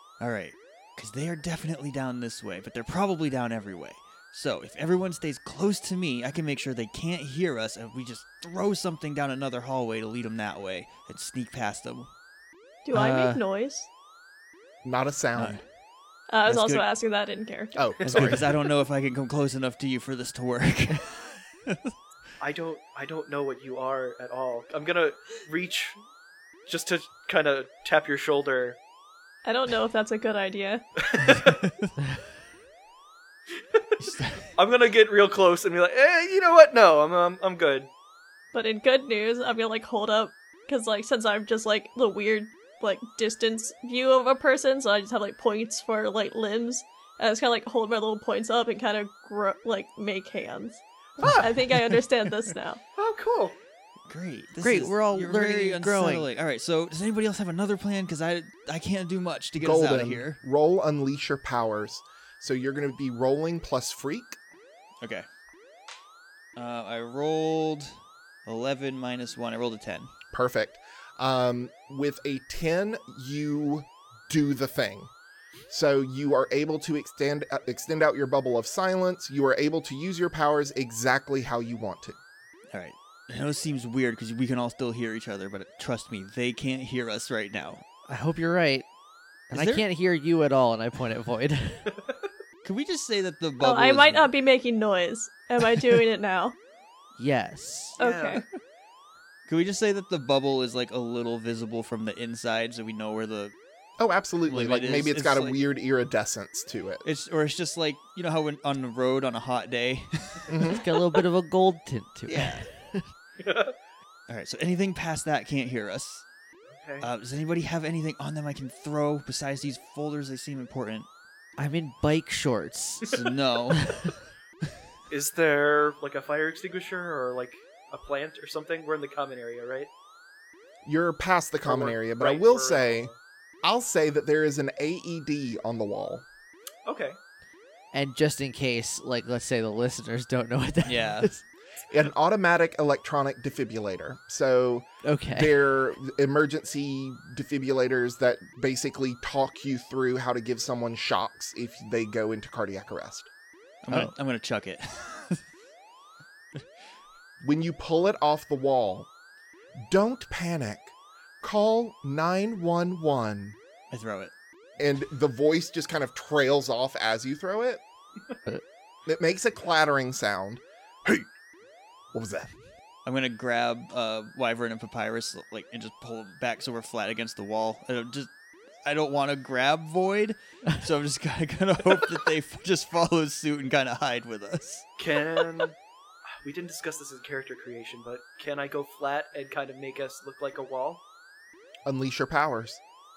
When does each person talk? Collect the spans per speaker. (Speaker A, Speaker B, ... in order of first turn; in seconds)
Speaker A: 0.2-12.1, 15.3-15.6, 16.4-16.8, 18.0-21.8, 34.0-34.5, 54.1-60.4, 65.0-65.3, 66.5-70.1, 82.7-87.8, 89.5-89.8, 92.6-94.3, 99.5-103.5, 104.5-105.6, 107.0-110.8, 112.3-112.7, 114.3-116.2, 117.0-121.1, 123.1-123.9, 140.8-141.3, 153.8-155.4, 163.9-164.3, 173.0-178.3, 178.8-185.4
Speaker B: 12.8-13.9, 16.3-17.9, 29.4-30.8, 38.5-52.8, 93.6-96.5, 98.0-98.4
Speaker C: 12.9-13.4, 54.6-56.2, 88.1-88.8, 89.5-91.9, 97.2-98.0, 110.7-113.1, 121.6-123.1, 123.8-124.0, 137.9-141.4, 145.0-145.6
Speaker D: 14.8-15.6, 17.7-18.4, 59.6-64.4, 70.3-75.1, 75.7-82.2, 104.0-107.0, 110.5-110.8, 130.8-133.1, 133.6-136.2, 141.9-153.3, 157.4-159.1, 159.8-163.6, 164.8-167.8, 169.1-171.3, 172.1-172.5, 191.8-192.8
Speaker E: 18.0-18.6, 22.4-26.0, 26.7-28.8, 31.0-31.6, 34.5-37.9, 51.2-51.5, 53.0-53.5, 98.0-98.4, 113.4-113.7, 116.7-117.1, 125.1-129.9, 131.7-133.1, 136.8-137.2, 185.0-185.8, 186.4-191.0